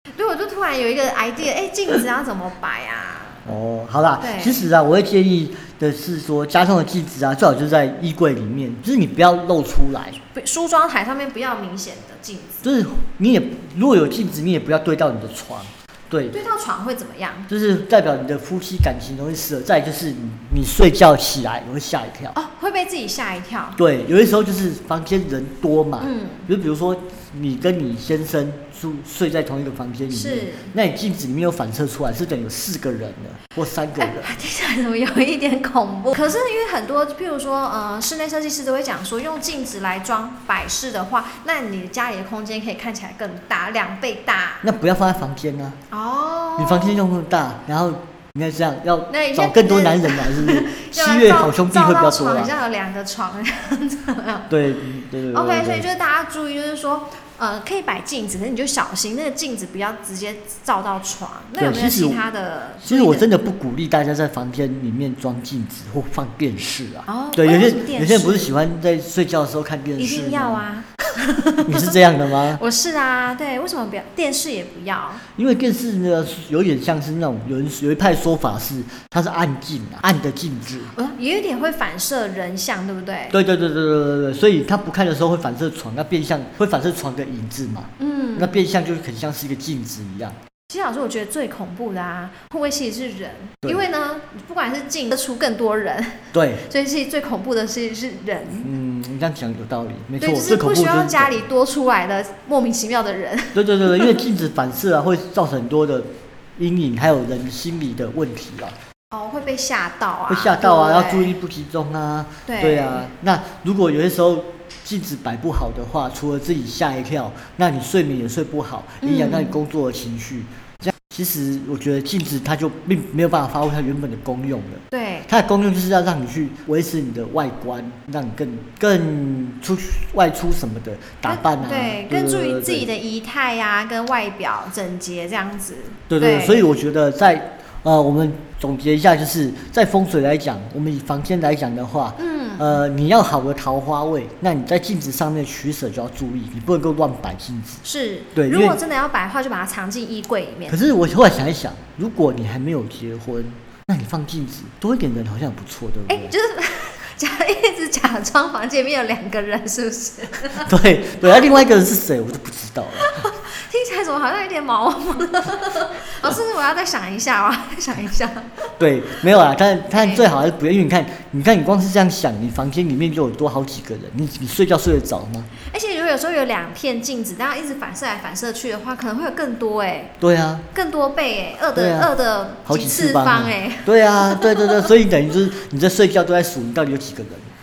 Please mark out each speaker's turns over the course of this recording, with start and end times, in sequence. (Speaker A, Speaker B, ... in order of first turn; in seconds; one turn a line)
Speaker A: 0.1-3.4
Speaker B: 3.5-10.2
Speaker A: 4.2-4.7
Speaker A: 10.3-12.6
Speaker B: 12.6-16.4
Speaker A: 16.3-17.5
Speaker B: 17.5-22.4
Speaker A: 22.3-23.8
Speaker B: 23.8-34.3
Speaker A: 26.0-26.5
Speaker A: 30.1-30.7
Speaker A: 34.0-44.7
Speaker B: 44.6-45.8
Speaker A: 45.9-47.0
Speaker B: 46.6-52.5
Speaker A: 49.1-54.6
Speaker B: 54.5-55.9
Speaker A: 55.3-63.3
Speaker B: 61.6-62.2
Speaker B: 62.8-70.6
Speaker A: 67.1-68.5
Speaker A: 70.0-72.0
Speaker B: 71.6-72.6
Speaker A: 72.5-75.2
Speaker B: 75.3-80.9
Speaker A: 81.0-83.4
Speaker B: 83.3-90.4
Speaker A: 88.0-88.6
Speaker A: 90.7-98.7
Speaker B: 96.3-96.7
Speaker B: 98.6-101.4
Speaker A: 100.2-104.2
Speaker B: 103.5-108.8
Speaker A: 109.1-111.3
Speaker B: 110.3-132.9
Speaker A: 112.5-113.1
Speaker A: 119.0-119.6
Speaker A: 124.9-125.3
Speaker A: 131.2-136.7
Speaker B: 136.1-147.8
Speaker A: 142.2-142.8
Speaker A: 147.8-150.8
Speaker B: 148.3-148.8
Speaker B: 150.7-156.3
Speaker A: 156.1-160.7
Speaker B: 160.6-163.3
Speaker A: 161.3-161.6
Speaker A: 163.0-168.7
Speaker B: 168.8-175.5
Speaker A: 170.0-170.3
Speaker A: 175.6-180.2
Speaker B: 180.2-180.7
Speaker A: 180.7-184.9
Speaker B: 181.7-182.1
Speaker B: 182.7-187.5